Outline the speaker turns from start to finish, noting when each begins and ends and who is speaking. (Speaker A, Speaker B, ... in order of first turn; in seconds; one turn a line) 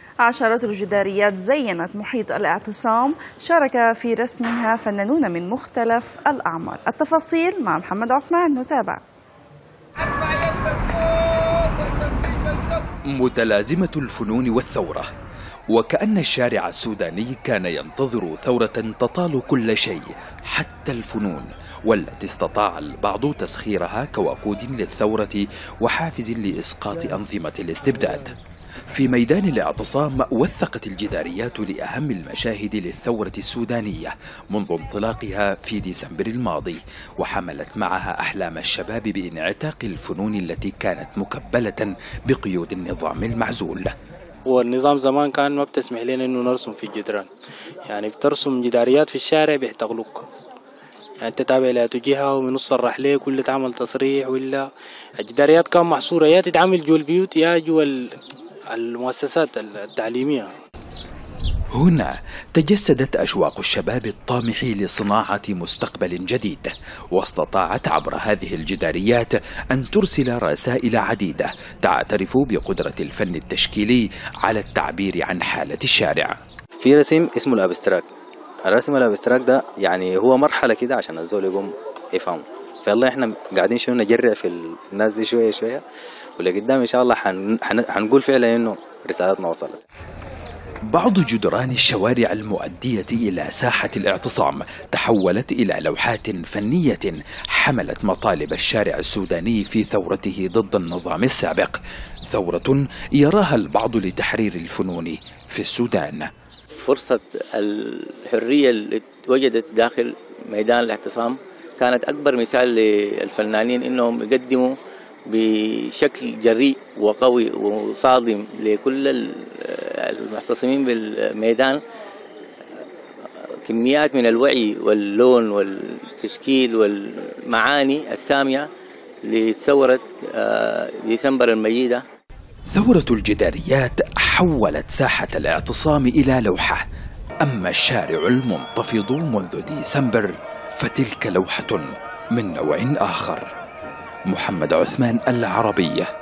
Speaker A: 0.2-9.0
Speaker B: 13.1-15.1
Speaker B: 15.7-28.4
Speaker B: 28.9-43.9
Speaker C: 44.5-47.3
Speaker C: 47.9-50.2
Speaker C: 51.2-58.2
Speaker C: 58.7-60.5
Speaker B: 61.8-76.4
Speaker D: 76.8-78.1
Speaker D: 78.7-85.8
Speaker D: 86.4-89.8
Speaker B: 90.9-106.3
Speaker E: 106.8-114.8
Speaker E: 115.3-121.8
Speaker E: 123.7-128.7
Speaker E: 129.2-132.0
Speaker B: 132.7-136.8
Speaker B: 137.4-143.5
Speaker B: 144.3-146.1